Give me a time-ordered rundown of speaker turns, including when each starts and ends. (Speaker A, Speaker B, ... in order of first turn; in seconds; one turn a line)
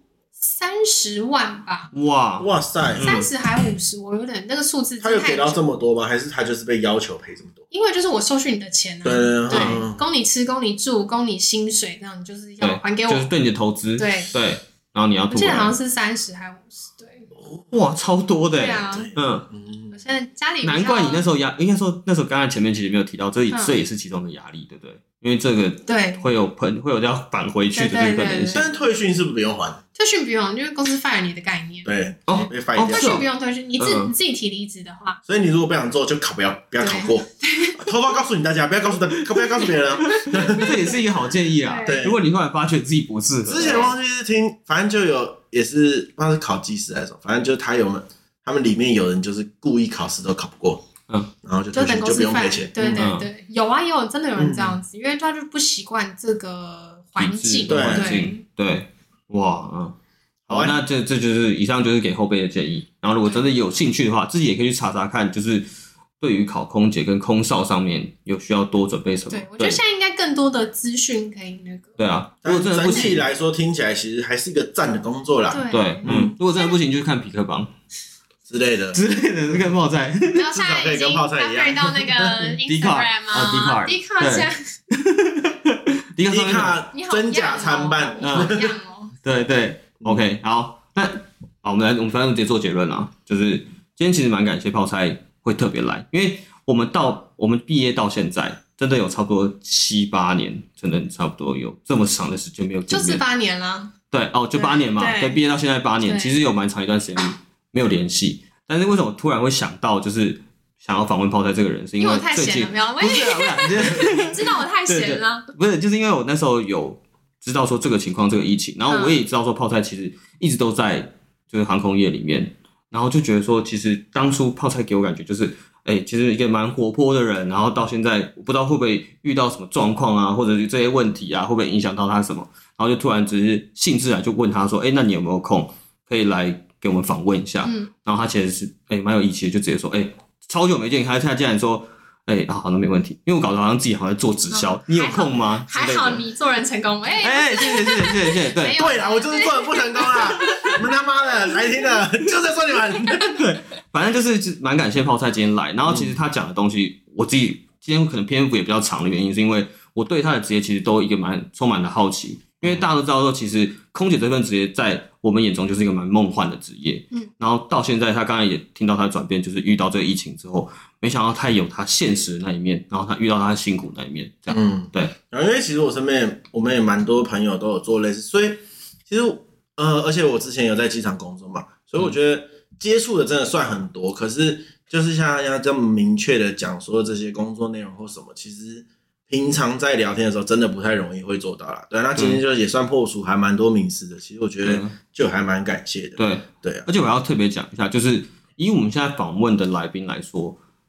Speaker A: 0.4-1.9
Speaker B: 1.9-3.3
Speaker C: 2.4-3.1
Speaker A: 3.0-5.6
Speaker C: 5.0-7.6
Speaker A: 7.7-13.3
Speaker C: 9.0-10.0
Speaker B: 9.5-9.8
Speaker B: 12.6-15.7
Speaker A: 14.0-14.3
Speaker A: 15.3-17.3
Speaker C: 17.4-17.6
Speaker B: 17.7-19.5
Speaker A: 18.5-19.1
Speaker C: 18.8-19.9
Speaker A: 19.9-21.2
Speaker B: 20.6-28.7
Speaker A: 23.5-23.9
Speaker A: 25.9-26.3
Speaker A: 27.7-28.6
Speaker C: 28.5-29.8
Speaker A: 29.9-31.9
Speaker C: 31.8-33.2
Speaker B: 32.3-33.2
Speaker A: 32.8-35.2
Speaker B: 33.8-34.1
Speaker C: 35.2-41.0
Speaker A: 36.8-38.0
Speaker A: 39.4-40.9
Speaker B: 40.1-43.9
Speaker A: 41.6-42.0
Speaker C: 41.8-42.2
Speaker C: 43.4-50.9
Speaker A: 43.6-43.9
Speaker C: 51.4-53.1
Speaker A: 51.7-58.4
Speaker B: 52.9-53.3
Speaker C: 54.4-54.8
Speaker B: 57.2-60.0
Speaker C: 57.7-58.3
Speaker B: 60.5-65.7
Speaker C: 60.5-60.8
Speaker B: 66.2-69.8
Speaker A: 69.3-72.0
Speaker B: 72.0-73.3
Speaker C: 72.4-76.3
Speaker A: 72.8-73.1
Speaker A: 75.5-76.8
Speaker B: 75.7-77.7
Speaker C: 78.5-79.0
Speaker B: 78.9-80.5
Speaker A: 80.3-84.6
Speaker C: 80.5-82.4
Speaker B: 82.6-86.8
Speaker C: 86.3-88.7
Speaker A: 86.9-89.1
Speaker B: 88.2-88.5
Speaker B: 89.2-103.2
Speaker A: 102.9-103.9
Speaker B: 104.1-146.2
Speaker A: 104.5-105.4
Speaker A: 106.0-106.3
Speaker A: 112.0-115.5
Speaker C: 113.8-114.3
Speaker A: 118.9-119.2
Speaker A: 137.6-137.9
Speaker A: 144.5-150.8
Speaker B: 147.2-148.9
Speaker C: 148.8-153.4
Speaker B: 150.4-150.7
Speaker A: 151.5-152.0
Speaker B: 153.3-175.1
Speaker C: 155.9-156.1
Speaker C: 174.5-196.9
Speaker B: 192.1-192.4
Speaker B: 194.6-194.9
Speaker B: 196.2-200.6